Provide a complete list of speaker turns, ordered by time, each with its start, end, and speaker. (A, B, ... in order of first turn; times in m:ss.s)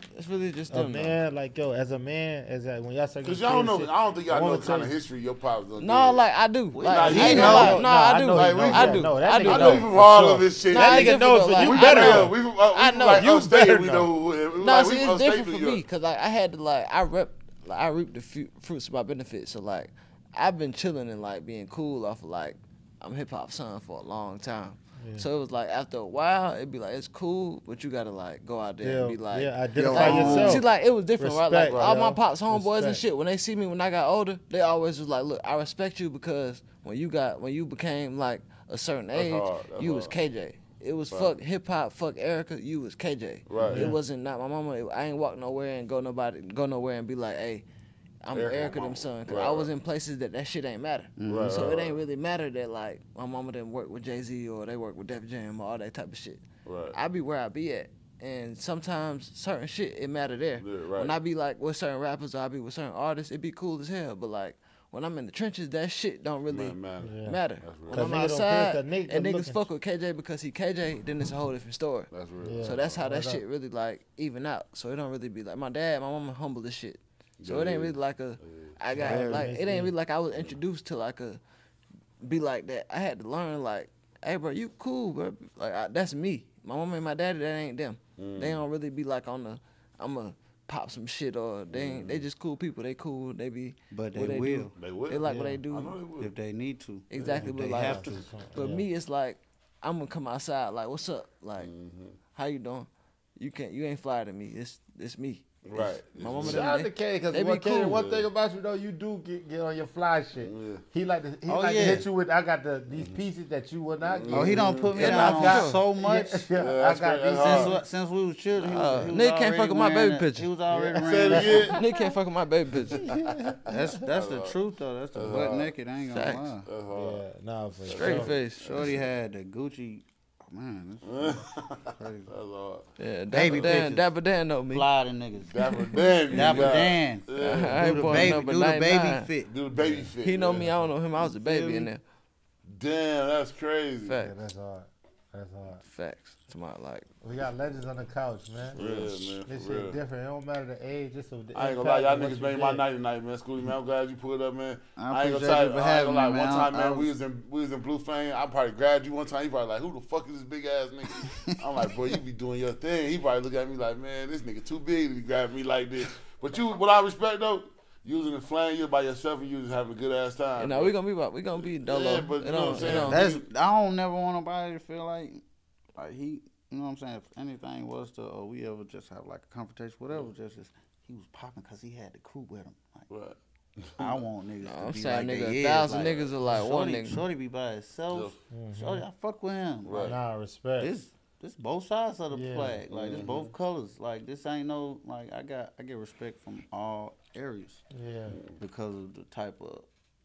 0:00.2-0:01.2 A
0:00.7-0:04.9 B
0:03.2-0:06.2 C
0:05.8-0:09.9 A
0:06.7-0:07.8 D
0:06.8-0:15.8 C
0:07.0-0:14.1 B
0:10.7-0:13.2 A
0:14.6-0:47.6 A
0:25.0-0:25.2 B
0:28.8-0:33.0 B
0:29.7-0:30.6 D
0:31.7-0:32.0 C
0:39.1-0:40.2 C
0:41.1-0:41.4 C
0:43.5-0:44.0 C
0:43.6-0:44.0 B
0:48.2-0:56.4 A
0:48.3-0:49.7 C
0:51.2-0:51.7 D
0:51.2-0:52.0 C
0:56.6-0:56.9 C
0:56.9-1:12.1 A
1:00.6-1:01.1 C
1:06.5-1:08.2 C
1:07.0-1:07.4 B
1:07.9-1:09.6 B
1:12.1-1:13.0 C
1:12.4-1:13.4 B
1:12.6-1:21.4 A
1:17.4-1:19.2 C
1:18.9-1:19.9 B
1:22.2-1:36.0 A
1:28.2-1:28.6 C
1:31.7-1:32.2 C
1:33.9-1:34.7 D
1:34.8-1:36.3 C
1:35.2-1:35.6 B
1:36.2-1:38.2 D
1:37.1-1:41.7 A
1:37.2-1:38.8 B
1:41.6-1:42.2 C
1:42.3-1:48.0 A
1:45.6-1:46.7 C
1:46.4-1:57.7 B
1:47.9-1:48.3 C
1:50.4-1:50.8 C
1:51.4-1:52.1 D
1:52.9-1:53.2 C
1:54.0-1:55.0 C
1:54.3-1:56.4 D
1:54.9-1:55.8 A
1:56.5-1:57.8 C
1:57.4-2:01.8 D
1:58.7-2:00.5 A
1:58.8-1:59.1 B
2:00.7-2:01.9 B
2:01.0-2:01.8 C
2:01.7-2:03.0 A
2:02.9-2:03.8 B
2:02.9-2:03.6 C
2:03.6-2:06.7 D
2:04.1-2:04.5 C
2:05.1-2:05.7 C
2:06.1-2:06.5 A
2:06.6-2:07.2 C
2:06.9-2:08.3 B
2:07.9-2:09.0 C
2:07.9-2:08.9 A
2:08.6-2:12.3 D
2:11.0-2:12.8 C
2:13.0-2:14.8 A
2:13.3-2:14.1 D
2:14.7-2:15.5 D
2:15.5-2:18.3 C
2:15.6-2:16.8 A
2:16.3-2:19.5 D
2:17.3-2:19.3 A
2:19.5-2:20.7 C
2:19.8-2:20.1 B
2:20.2-2:22.0 A
2:21.2-2:21.9 D
2:22.7-2:24.2 C
2:24.0-2:24.3 A
2:24.2-2:25.8 B
2:25.8-2:27.1 A
2:27.2-2:28.8 B
2:28.7-2:30.0 C
2:28.8-2:29.3 D
2:29.4-2:32.8 B
2:31.5-2:50.9 C
2:35.0-2:37.1 D
2:41.2-2:41.5 D
2:50.6-2:53.2 A
2:51.6-2:53.4 C
2:52.8-2:55.4 D
2:55.9-3:03.1 D
3:03.1-3:04.1 C
3:04.0-3:10.1 D
3:04.6-3:07.2 A
3:05.9-3:06.2 C
3:08.5-3:09.0 B
3:09.8-3:10.2 C
3:10.0-3:10.9 B
3:10.8-3:17.8 D
3:12.3-3:12.8 B
3:12.9-3:13.5 C
3:17.9-3:18.4 B
3:18.3-3:18.5 C
3:18.6-3:19.9 D